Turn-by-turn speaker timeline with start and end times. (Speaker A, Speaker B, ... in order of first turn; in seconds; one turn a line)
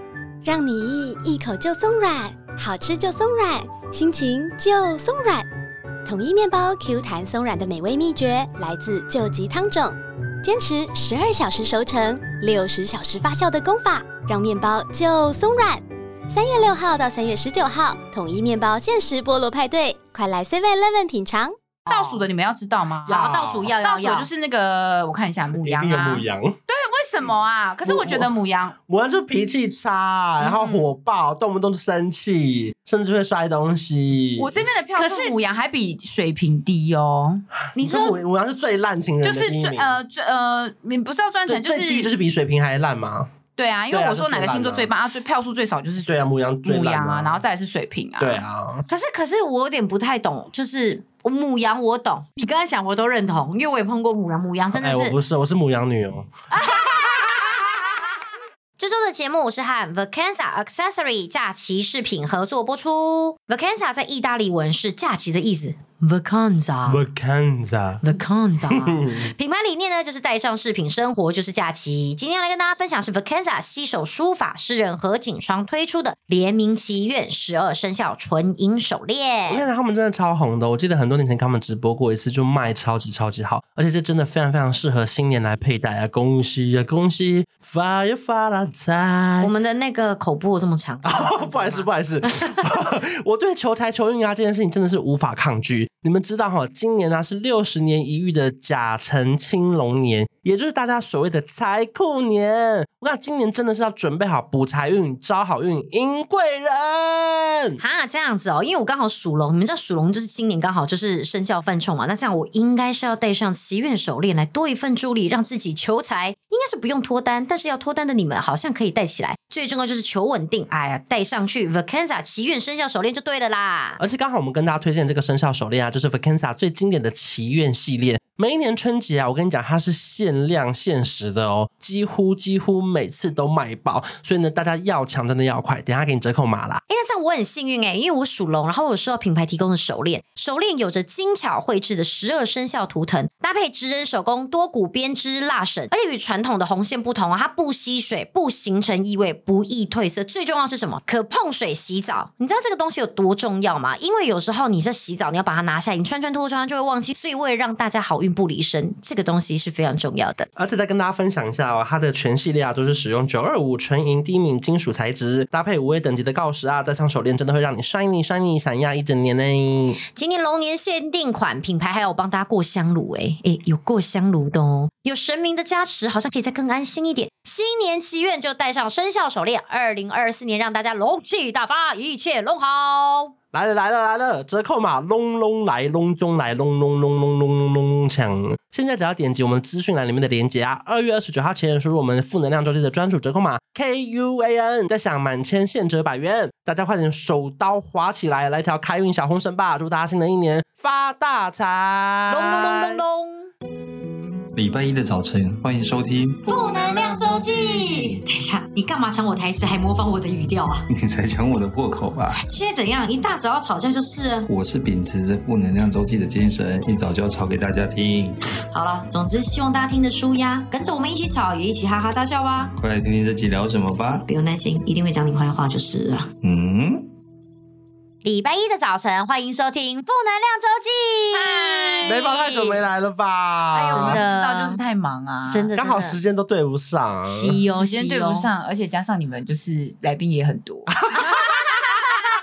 Speaker A: 0.4-5.5
Speaker A: 6.0-21.6
Speaker B: 21.9-22.2
Speaker C: 21.9-28.8
Speaker D: 23.1-23.7
Speaker B: 23.1-24.3
Speaker D: 25.6-26.6
Speaker D: 27.8-28.3
Speaker D: 28.9-34.6
Speaker C: 30.4-30.8
Speaker C: 34.4-37.4
Speaker B: 34.9-35.3
Speaker B: 37.8-38.2
Speaker D: 37.8-40.0
Speaker C: 39.2-42.1
Speaker D: 41.5-43.3
Speaker C: 43.6-48.4
Speaker D: 43.9-44.9
Speaker D: 46.0-47.4
Speaker D: 48.2-48.9
Speaker B: 48.9-55.1
Speaker D: 54.7-57.4
Speaker B: 56.5-57.6
Speaker B: 58.8-67.0
Speaker D: 66.9-68.0
Speaker B: 68.0-79.6
Speaker D: 68.7-69.3
Speaker D: 79.5-89.5
Speaker B: 89.4-92.6
Speaker D: 91.0-107.8
Speaker B: 107.8-124.0
Speaker D: 124.0-136.8
Speaker B: 136.9-160.5
Speaker D: 160.6-170.0
Speaker B: 170.1-183.3
Speaker D: 183.5-203.0
Speaker B: 202.3-203.5
Speaker E: 204.5-208.2
Speaker B: 206.4-210.8
Speaker E: 210.9-212.4
Speaker B: 212.4-214.5
Speaker E: 214.5-218.4
Speaker B: 218.7-222.7
Speaker E: 222.8-224.2
Speaker B: 224.3-226.3
Speaker E: 226.4-227.1
Speaker B: 228.2-232.8
Speaker C: 231.3-232.2
Speaker D: 232.0-234.2
Speaker B: 233.8-234.8
Speaker C: 233.8-235.7
Speaker B: 235.5-236.2
Speaker D: 235.7-237.6
Speaker C: 237.3-242.0
Speaker B: 237.4-238.5
Speaker D: 240.9-241.5